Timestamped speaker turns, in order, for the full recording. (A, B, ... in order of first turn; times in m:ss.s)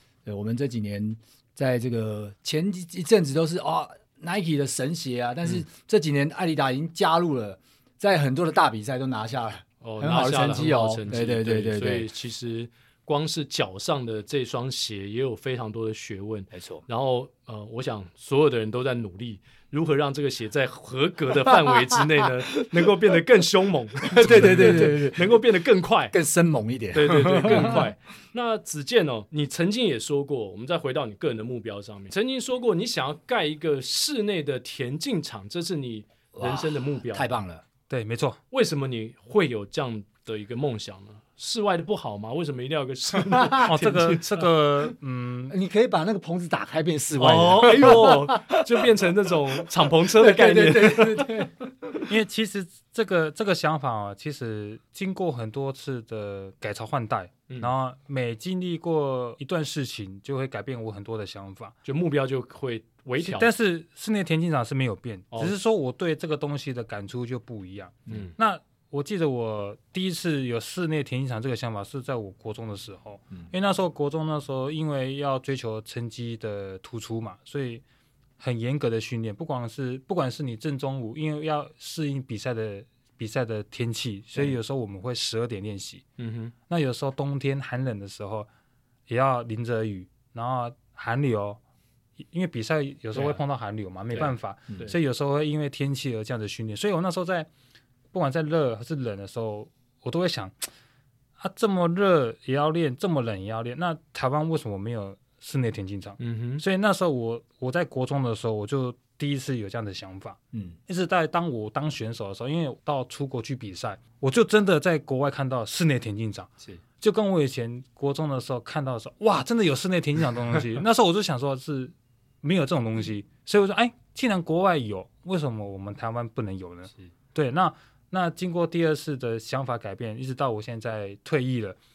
0:00.2-0:12.1 A
0:09.8-0:26.2 B
0:16.5-0:16.8 A
0:24.0-0:25.4 A
0:26.1-0:27.8 A
0:26.9-0:37.3 B
0:36.3-0:37.6 A
0:37.9-0:38.4 C
0:38.5-0:44.5 B
0:43.6-0:45.5 C
0:45.5-0:48.6 A
0:47.2-0:51.3 B
0:49.5-0:52.0 A
0:52.0-1:01.7 C
1:01.8-1:03.5 B
1:03.2-1:17.8 C
1:08.1-1:08.3 B
1:18.4-1:26.0 C
1:26.2-1:26.5 B
1:26.7-1:28.5 C
1:29.1-1:31.6 C
1:32.3-1:37.5 C
1:33.1-1:33.4 B
1:34.1-1:34.9 B
1:38.1-1:40.7 C
1:41.4-1:56.5 C
1:46.2-1:46.6 B
1:57.0-2:11.8 C